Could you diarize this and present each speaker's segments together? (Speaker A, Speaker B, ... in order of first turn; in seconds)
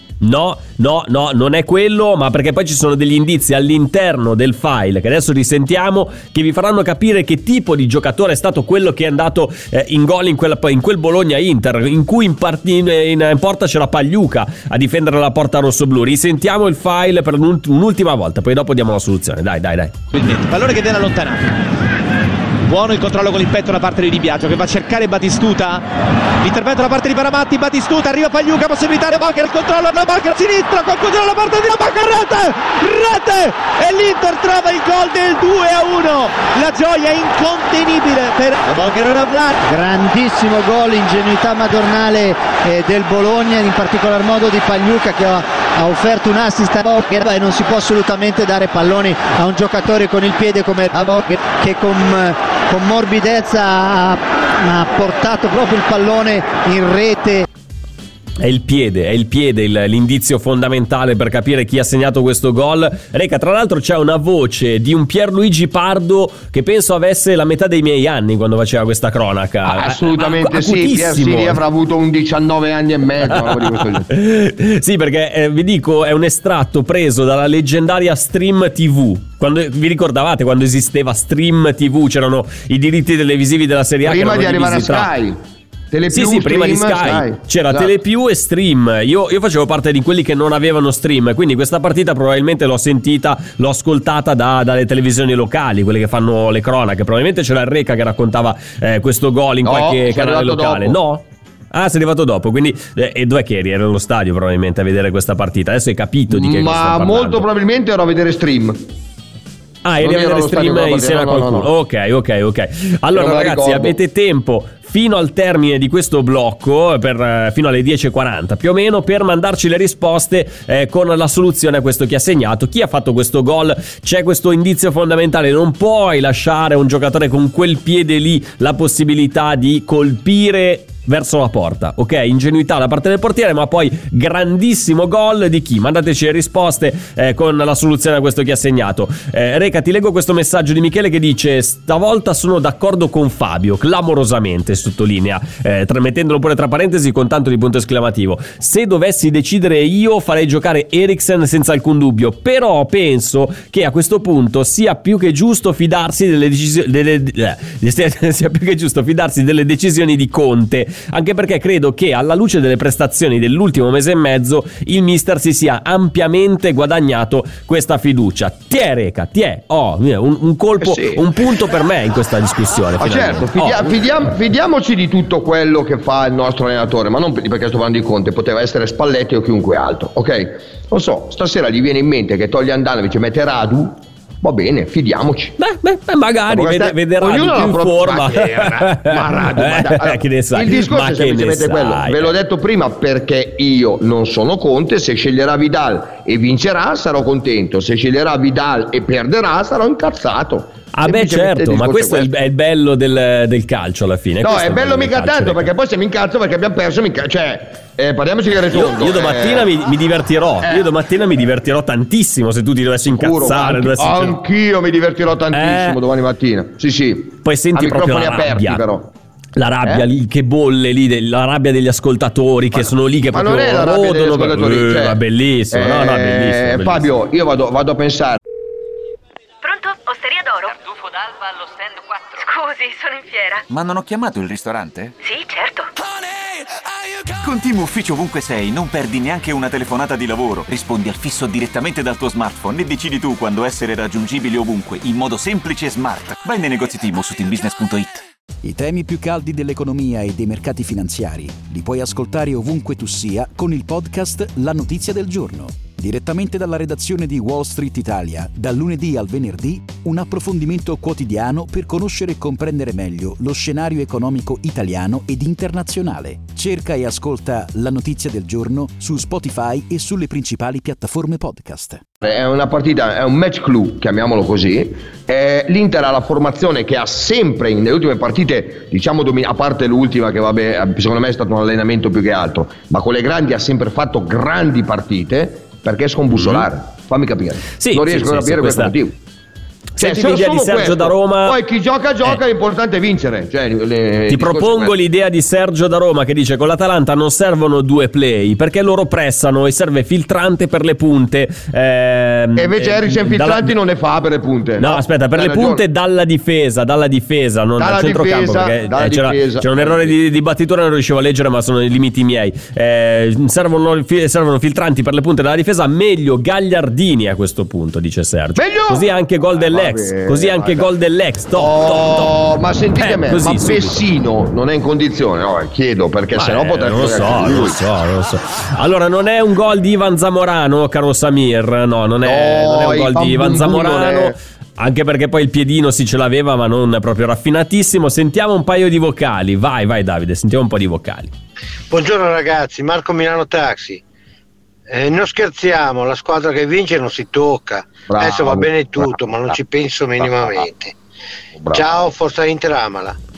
Speaker A: 0.2-19.9, 58.4-71.6, 73.3-85.1, 86.1-107.5, 109.8-173.9, 185.6-192.3, 200.9-205.7, 208.7-214.4, 215.5-216.0, 217.4-218.8, 219.6-227.1, 286.3-286.6, 287.8-288.9, 289.9-291.6, 294.3-303.7, 304.8-322.3, 323.0-324.0, 326.3-341.3
Speaker B: 20.1-21.5, 22.7-25.8, 26.4-39.6
Speaker C: 39.7-57.5
Speaker D: 69.6-74.1, 84.0-85.4, 85.9-87.9, 99.6-101.0, 106.3-108.8, 110.0-111.7, 113.1-113.9, 170.8-171.2, 173.0-185.6, 186.5-202.3, 204.4-209.7, 213.0-219.1, 222.7-225.2, 225.7-228.4, 272.2-289.1, 290.0-294.9, 302.6-305.8, 307.8-310.1, 318.6-320.9, 321.5-327.8, 332.2-334.4, 348.1-349.6, 350.2-350.6, 351.5-351.9
Speaker E: 229.6-233.6, 235.2-235.9
Speaker F: 233.7-235.1, 237.4-248.2
Speaker G: 248.6-272.0
Speaker H: 341.9-344.0, 344.9-350.9, 351.7-353.2